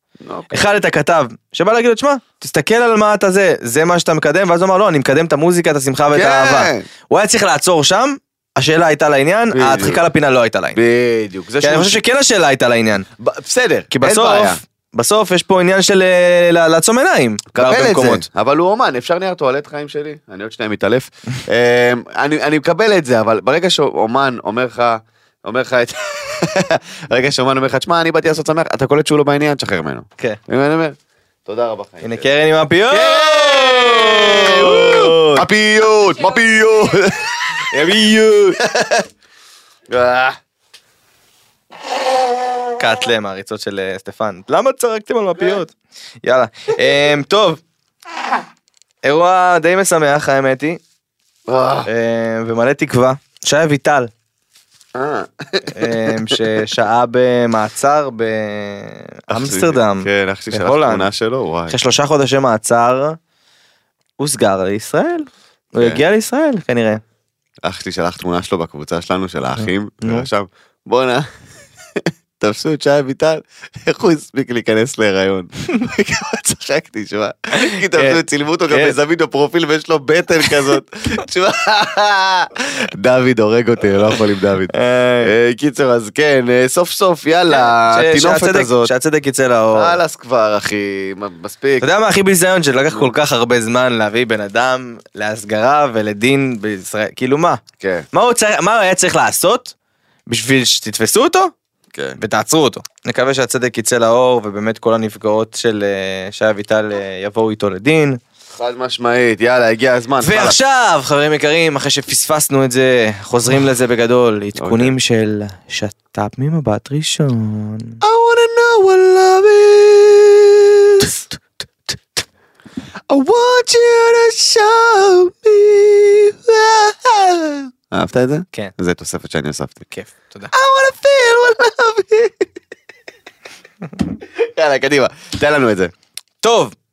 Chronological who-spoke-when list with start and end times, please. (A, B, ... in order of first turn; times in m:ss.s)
0:00.2-0:00.6 A
0:00.5-0:10.8 B
0:06.1-0:06.8 A
0:09.5-0:10.0 A
0:10.7-0:12.0 A
0:11.6-0:13.0 B
0:13.2-0:14.6 A
0:13.9-0:18.2 B
0:17.5-0:32.2 A
0:32.0-0:35.4 B
0:32.9-0:37.8 A
0:37.7-0:38.6 B
0:38.6-0:39.0 A
0:39.9-0:40.4 A
0:42.8-0:47.6 B
0:49.0-0:50.8 B
0:51.5-0:51.9 A
0:51.8-0:54.1 B
0:54.9-0:56.4 A
0:55.7-1:01.1 B
0:59.3-1:01.8 A
1:01.7-1:03.2 B
1:04.2-1:07.0 B
1:07.6-1:11.3 A
1:12.0-1:28.9 A
1:17.6-1:18.9 B
1:24.7-1:25.3 B
1:27.5-1:30.0 B
1:29.7-1:31.8 A
1:31.8-1:37.6 B
1:37.8-1:38.1 A
1:38.1-1:39.7 B
1:40.3-1:41.5 B
1:41.9-1:42.2 A
1:42.2-1:48.2 B
1:48.5-1:50.6 A
1:50.2-1:58.0 B
1:54.6-1:54.9 A
1:58.0-2:01.2 A
2:03.1-2:09.8 A
2:09.9-2:10.5 B
2:10.5-2:12.4 A
2:14.3-2:15.9 A
2:16.4-2:16.7 B